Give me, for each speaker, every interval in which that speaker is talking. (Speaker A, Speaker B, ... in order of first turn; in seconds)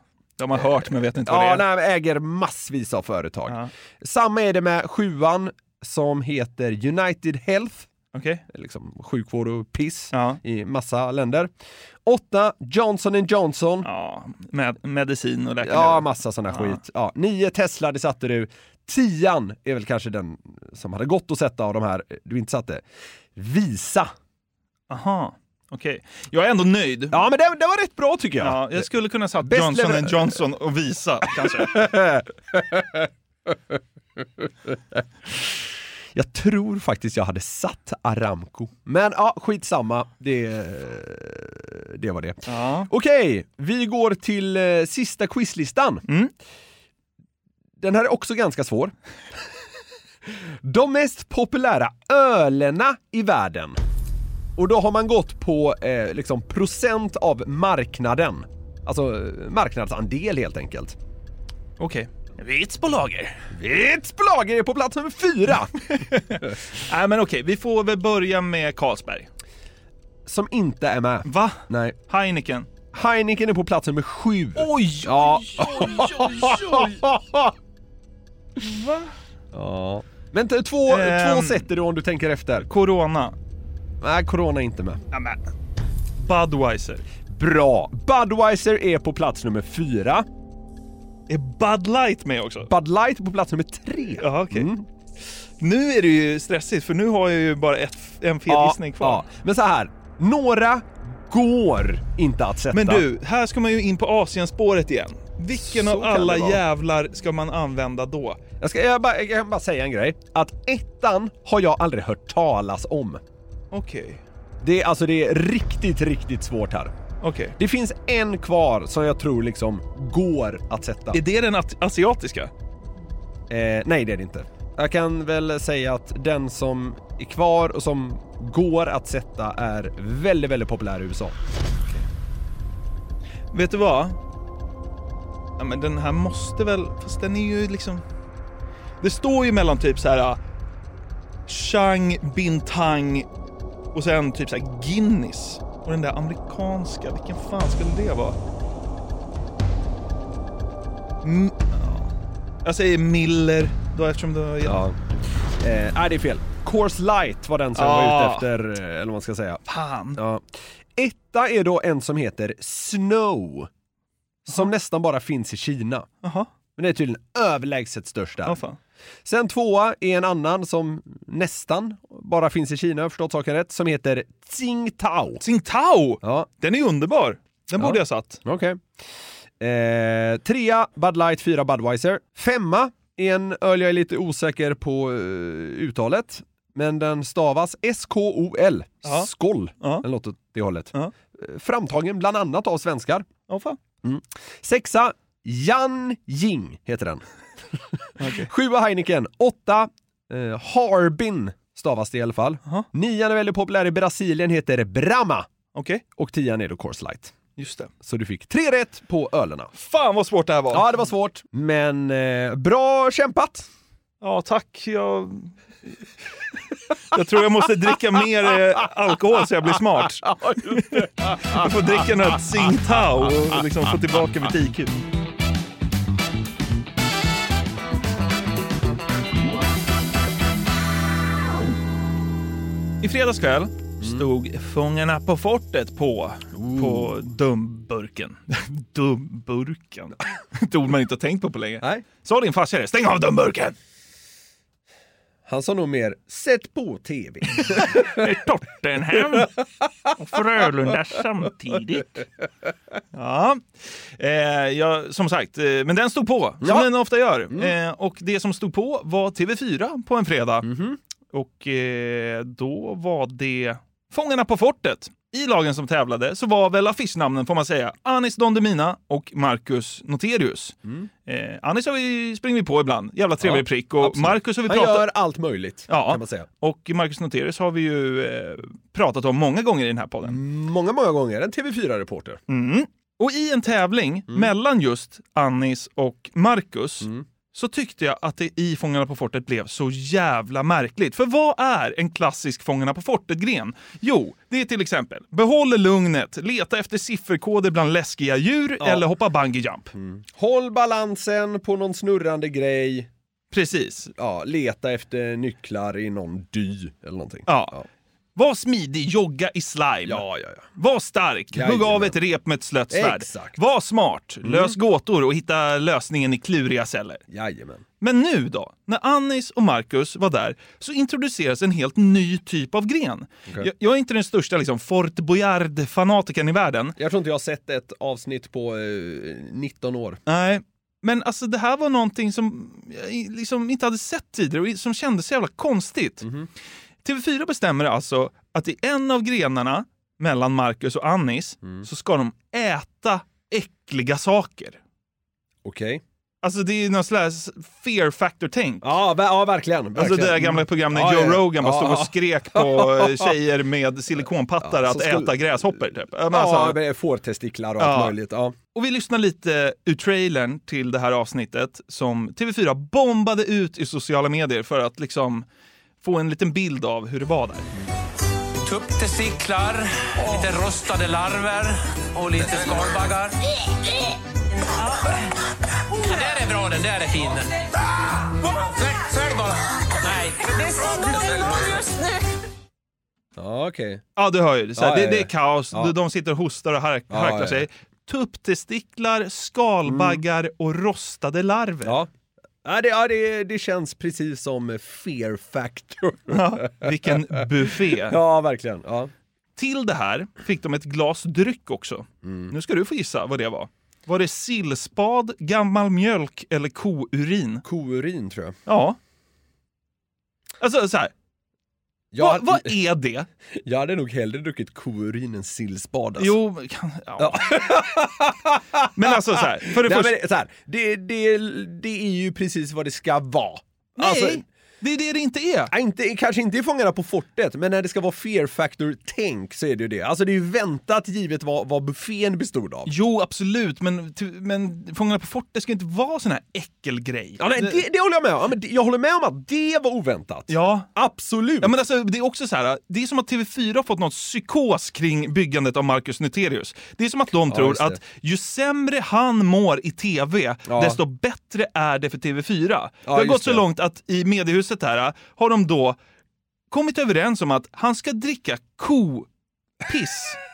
Speaker A: 0.4-1.6, 8.1-8.4, 10.1-10.4, 13.8-16.8, 24.9-27.2, 28.4-31.9, 42.5-42.9, 61.8-63.4, 65.9-69.3, 71.3-72.7, 74.6-77.0, 78.6-79.1, 80.9-81.7, 82.7-83.4, 85.1-85.4, 86.2-87.0, 91.3-92.7, 94.2-94.7, 95.6-99.2, 102.7-108.4, 113.7-114.2, 117.2-117.5, 121.1-122.5, 133.5-134.2, 135.6-138.0, 139.0-140.4, 141.5-143.3, 143.9-148.4, 151.2-152.1, 152.7-154.8, 157.8-158.5, 159.7-160.2, 166.2-166.5, 168.4-168.8, 175.4-178.4, 193.5-193.8, 198.2-198.5, 205.8-206.0, 207.6-207.9, 209.8-210.9, 214.2-215.9, 217.1-224.9, 233.0-243.8, 247.6-249.5, 250.2-252.2, 253.1-260.7, 261.3-270.8, 271.3-275.1, 275.9-280.4, 282.5-299.9, 303.5-304.1, 307.5-307.8, 308.4-310.2, 310.8-317.2, 318.0-327.0, 330.3-336.3, 337.0-344.8, 346.4-348.9, 350.0-356.8, 357.8-358.2, 358.7-365.4, 366.0-367.7, 384.2-392.0, 396.3-398.2, 399.6-407.6, 408.7-409.0, 410.6-411.1, 412.2-413.3, 416.2-417.8, 418.9-420.1, 424.0-425.7, 432.9-437.8, 440.5-440.9, 441.6-456.0, 456.7-459.3, 459.8-460.4
Speaker B: 1.2-7.9, 8.5-11.5, 12.1-13.9, 15.6-22.8, 23.4-24.1, 27.1-28.9, 29.4-30.4, 31.4-33.8, 34.4-35.5, 36.1-46.0, 47.8-48.9, 50.3-53.8, 54.6-61.0, 63.5-65.8, 70.3-72.0, 72.9-77.5, 79.5-82.7, 84.0-85.0, 87.3-90.3, 92.7-94.9, 98.5-103.0, 105.5-106.6, 108.6-113.2, 114.6-116.9, 117.6-121.2, 123.5-131.4, 154.6-155.0, 155.6-159.6, 160.2-163.7, 164.5-166.1, 166.8-168.6, 169.2-175.4, 176.2-176.5, 177.8-178.9, 179.6-193.3, 194.0-197.2, 197.7-205.5, 206.2-207.4, 208.0-209.7, 210.7-213.7, 220.3-221.7, 234.0-234.3, 236.5-237.1, 245.5-248.2, 256.6-256.9, 260.6-261.0, 273.4-276.5, 280.2-282.4, 298.8-299.1, 299.9-303.1, 304.2-307.9, 310.1-310.7, 311.5-312.2, 312.9-313.6, 314.4-314.8, 317.3-317.9, 327.0-330.2, 336.2-336.5, 345.6-346.0, 348.8-353.3, 354.6-358.6, 383.4-384.0, 384.8-385.9, 387.1-387.7, 389.9-390.2, 391.8-392.1, 392.6-397.2, 397.9-399.1, 402.2-402.5, 407.6-408.6, 412.1-412.8, 413.5-416.4, 417.2-424.4, 425.7-432.9, 437.4-441.7, 447.5-448.0, 450.7-451.0, 453.1-453.7
Speaker C: 368.6-373.4, 376.0-377.5, 378.4-381.9